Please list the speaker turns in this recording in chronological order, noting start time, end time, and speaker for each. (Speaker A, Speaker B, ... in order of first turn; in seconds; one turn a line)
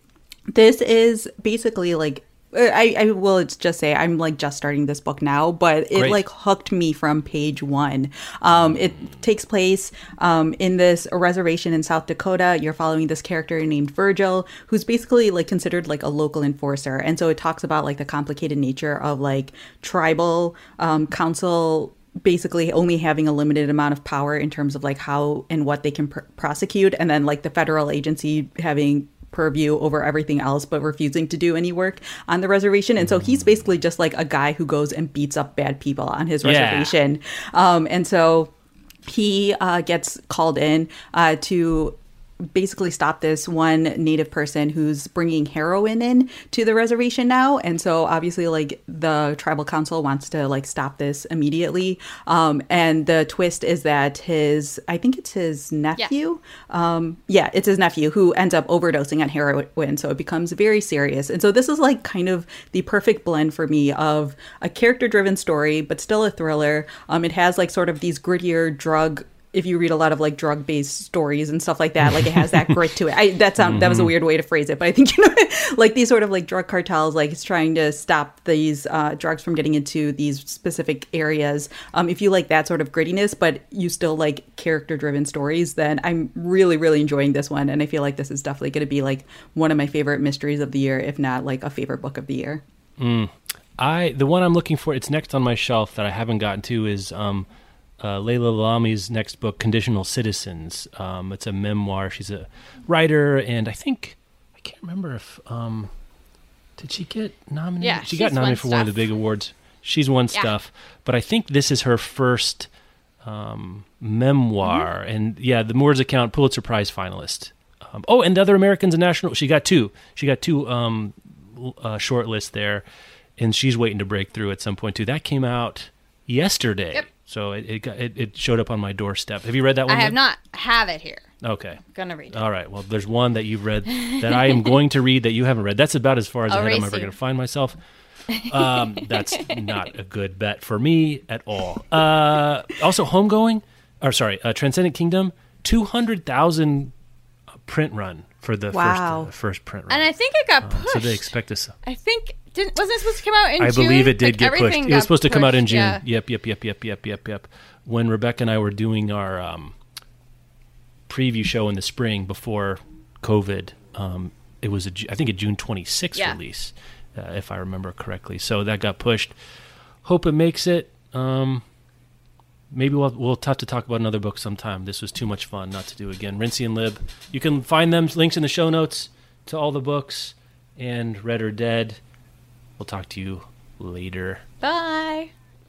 Speaker A: 0.5-38.5
Speaker B: 5.9-6.2
Speaker B: 36.4-36.9
Speaker A: 39.0-42.0
Speaker A: 42.5-92.6
Speaker B: 72.1-72.8
Speaker B: 73.6-74.1
Speaker B: 93.0-97.5
Speaker B: 98.0-105.9
Speaker B: 106.8-112.7
Speaker C: 107.8-109.0
Speaker B: 113.2-122.8
Speaker B: 123.4-130.2
Speaker C: 129.9-131.3
Speaker B: 131.4-137.8
Speaker C: 131.9-132.3
Speaker C: 133.9-134.8
Speaker C: 136.5-137.1
Speaker C: 138.3-139.6
Speaker B: 138.4-146.9
Speaker B: 147.6-150.1
Speaker A: 148.7-149.3
Speaker C: 149.9-151.3
Speaker B: 150.6-151.8
Speaker C: 151.8-156.0
Speaker B: 153.6-159.7
Speaker B: 161.1-169.3
Speaker B: 170.0-171.6
Speaker B: 172.7-182.0
Speaker B: 182.8-184.4
Speaker C: 184.6-185.3